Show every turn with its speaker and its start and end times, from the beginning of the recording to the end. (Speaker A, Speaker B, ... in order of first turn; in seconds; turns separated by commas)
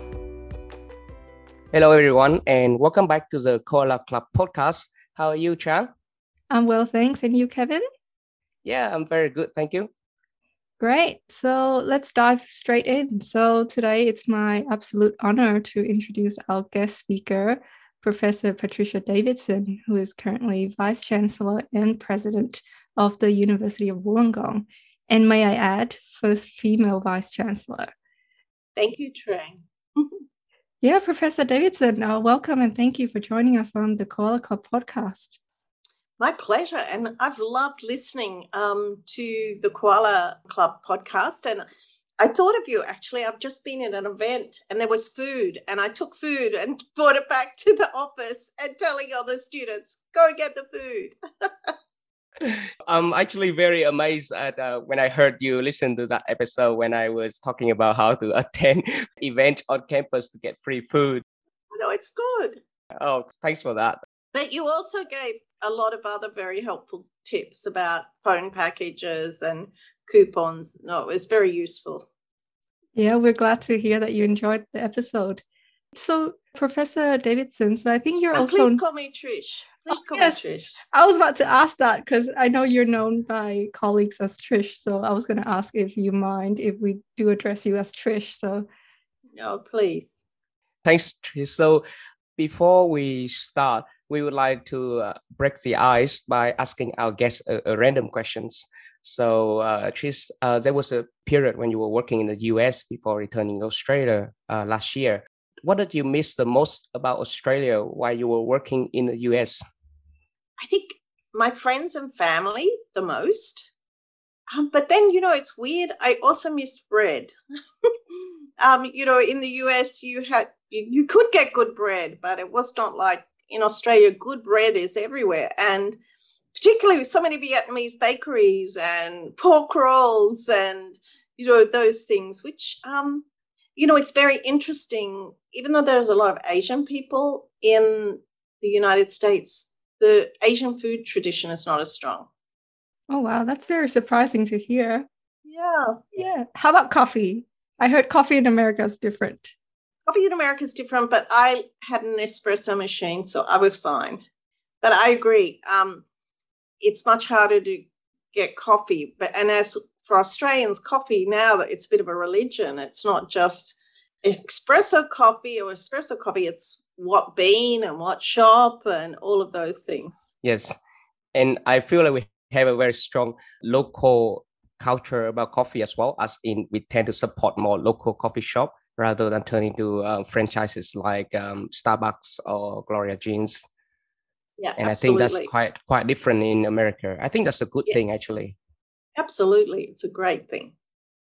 Speaker A: 1.7-5.9, Speaker B: 6.5-7.8, Speaker A: 8.6-9.9, Speaker B: 10.8-27.9, Speaker C: 28.8-30.2, Speaker B: 30.8-35.4, Speaker C: 36.2-41.6, Speaker C: 42.2-51.7, Speaker A: 52.4-61.2, Speaker C: 61.7-62.6, Speaker A: 62.9-64.0, Speaker C: 64.3-72.1, Speaker B: 73.0-75.4, Speaker B: 75.9-78.8, Speaker C: 78.3-80.8, Speaker B: 79.9-88.7, Speaker C: 89.3-90.2, Speaker A: 90.8-91.8, Speaker A: 92.4-109.6, Speaker C: 110.6-113.7, Speaker C: 114.5-117.3, Speaker C: 118.6-126.0, Speaker C: 126.5-142.3, Speaker B: 143.1-145.1, Speaker C: 145.4-146.0, Speaker B: 146.1-149.5, Speaker C: 150.1-154.2, Speaker C: 154.8-156.0, Speaker C: 156.8-170.2, Speaker A: 170.4-170.8, Speaker A: 171.3-183.6, Speaker C: 184.6-185.5, Speaker A: 184.8-188.6, Speaker C: 189.2-190.7